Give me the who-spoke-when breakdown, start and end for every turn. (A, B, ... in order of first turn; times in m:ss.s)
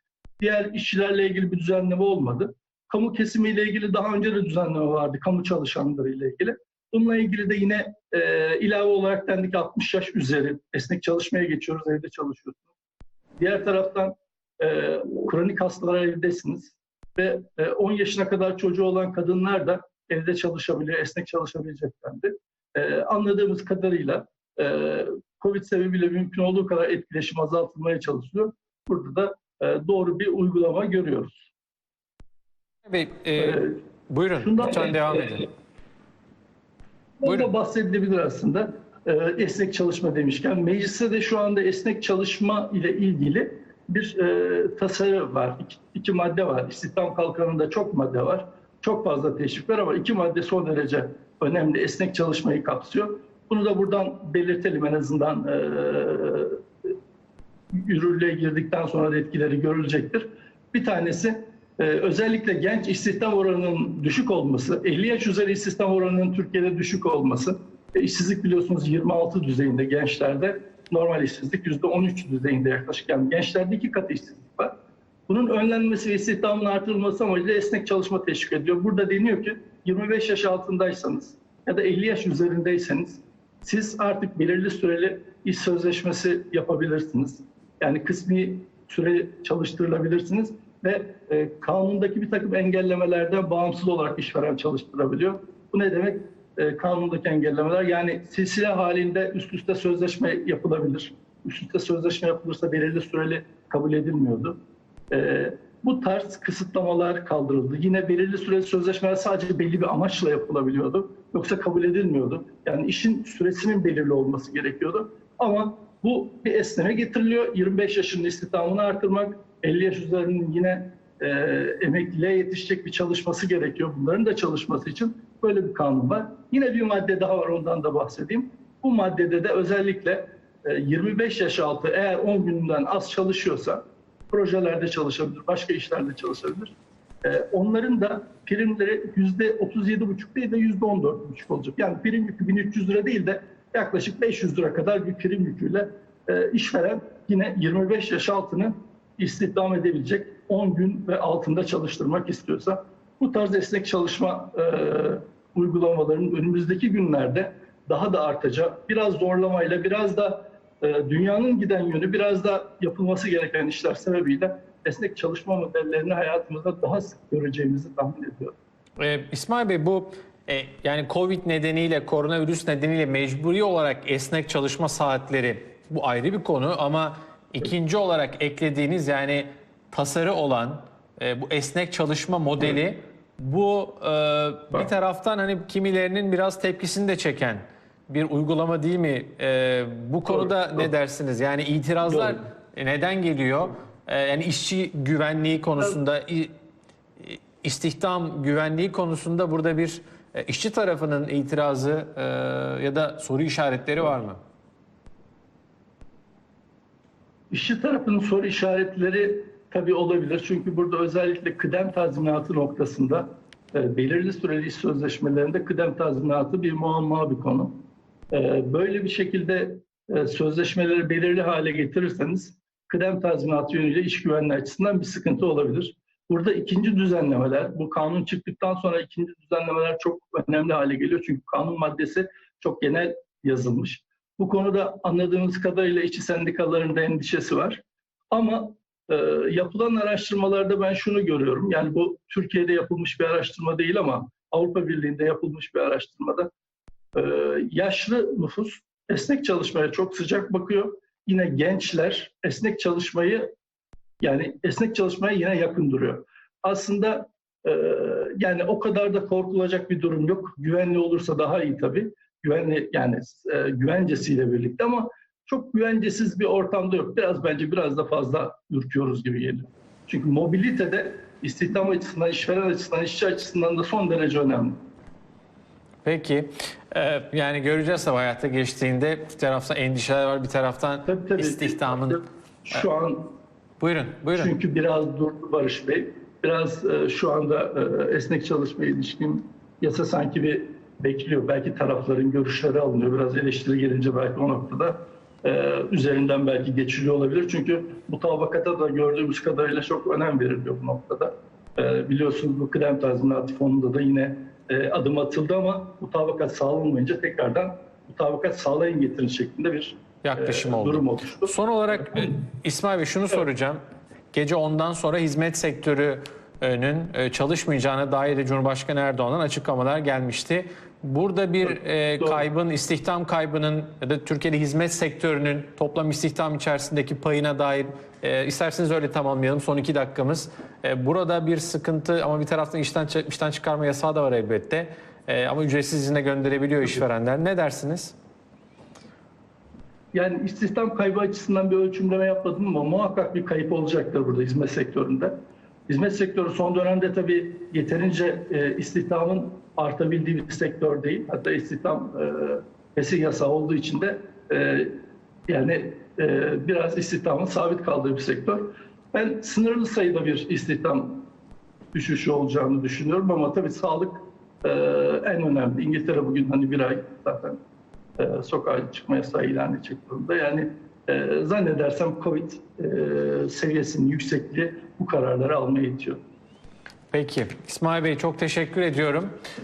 0:00.4-0:12.6 A
0:13.4-0:31.5 A
0:32.9-0:35.5 B
0:33.4-0:33.8 A
0:34.4-0:35.5 A
0:37.2-0:56.6 A
0:37.2-0:37.5 B
0:57.7-1:14.7 A
1:15.3-1:44.6 A
1:45.1-2:48.5 A
2:49.0-3:16.5 B
3:10.3-3:10.9 A
3:12.0-3:12.4 A
3:17.2-3:24.4 B
3:27.5-4:06.5 A
4:07.2-4:13.5 A
4:14.2-4:34.8 A
4:36.0-4:42.2 B
4:41.0-4:43.3 A
4:43.8-4:44.5 B
4:44.4-5:11.6 A
5:10.2-5:13.8 B
5:14.3-5:38.2 B
5:21.6-5:22.4 A
5:40.1-5:45.4 A
5:45.9-5:54.9 A
5:55.5-6:01.2 A
6:01.9-6:07.6 A
6:08.2-6:16.2 A
6:17.1-6:19.4 B